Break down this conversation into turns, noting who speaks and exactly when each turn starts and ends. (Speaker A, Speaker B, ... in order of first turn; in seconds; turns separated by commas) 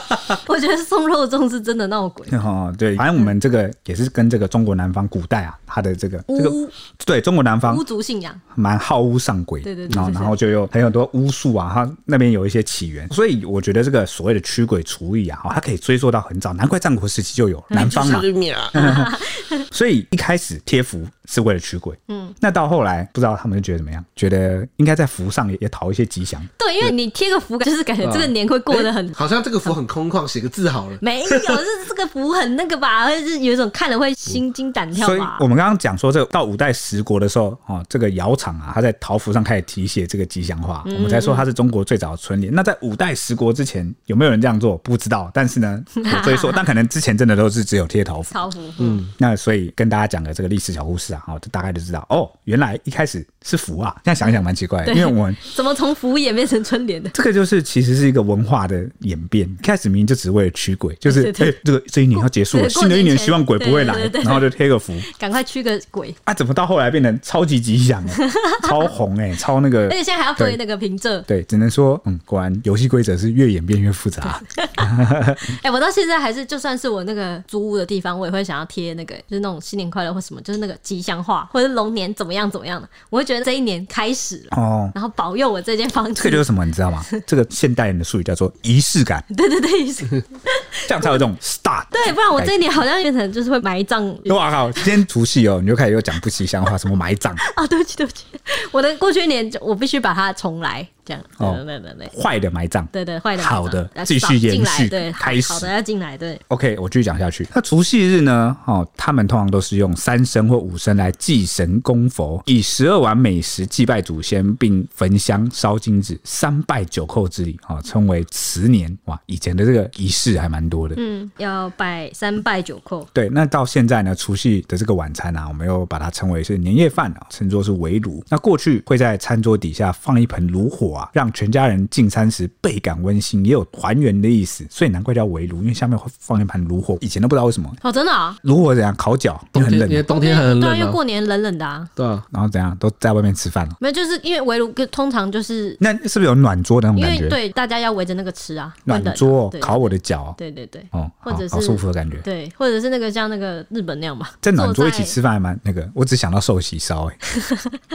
Speaker A: 0.3-2.4, Speaker B: 2.3-7.8, Speaker A: 6.3-6.7, Speaker A: 7.7-8.4, Speaker B: 8.5-19.2, Speaker A: 9.6-10.3, Speaker C: 17.7-18.8, Speaker A: 18.8-19.6, Speaker B: 19.7-26.5, Speaker A: 22.1-22.4, Speaker A: 26.6-29.7, Speaker C: 28.0-31.6, Speaker A: 31.0-35.4, Speaker B: 34.9-48.3, Speaker A: 40.9-41.5, Speaker A: 46.0-46.6, Speaker A: 48.3-49.0, Speaker B: 49.1-55.4, Speaker A: 54.9-57.1, Speaker B: 57.1-65.1, Speaker A: 61.1-61.6, Speaker A: 62.1-64.5, Speaker A: 65.0-66.2, Speaker B: 66.3-70.6, Speaker A: 68.2-68.9, Speaker A: 69.9-71.3, Speaker B: 71.3-75.5, Speaker A: 74.6-74.9, Speaker A: 75.4-86.5, Speaker B: 84.5-84.9, Speaker B: 86.2-89.2, Speaker A: 89.3-91.2, Speaker B: 90.9-92.5, Speaker A: 91.9-94.9, Speaker B: 94.3-97.4, Speaker A: 97.4-102.1, Speaker B: 101.4-105.7, Speaker A: 102.9-106.4, Speaker B: 106.5-121.0, Speaker A: 121.0-123.1, Speaker B: 123.1-137.8, Speaker A: 137.8-138.4, Speaker B: 138.4-140.1, Speaker C: 139.5-141.0, Speaker A: 140.1-141.9, Speaker C: 142.0-142.2, Speaker B: 142.3-143.8, Speaker A: 143.8-145.8, Speaker B: 145.8-147.4, Speaker A: 147.0-155.2, Speaker B: 148.9-150.4, Speaker B: 150.9-152.2, Speaker B: 154.4-157.2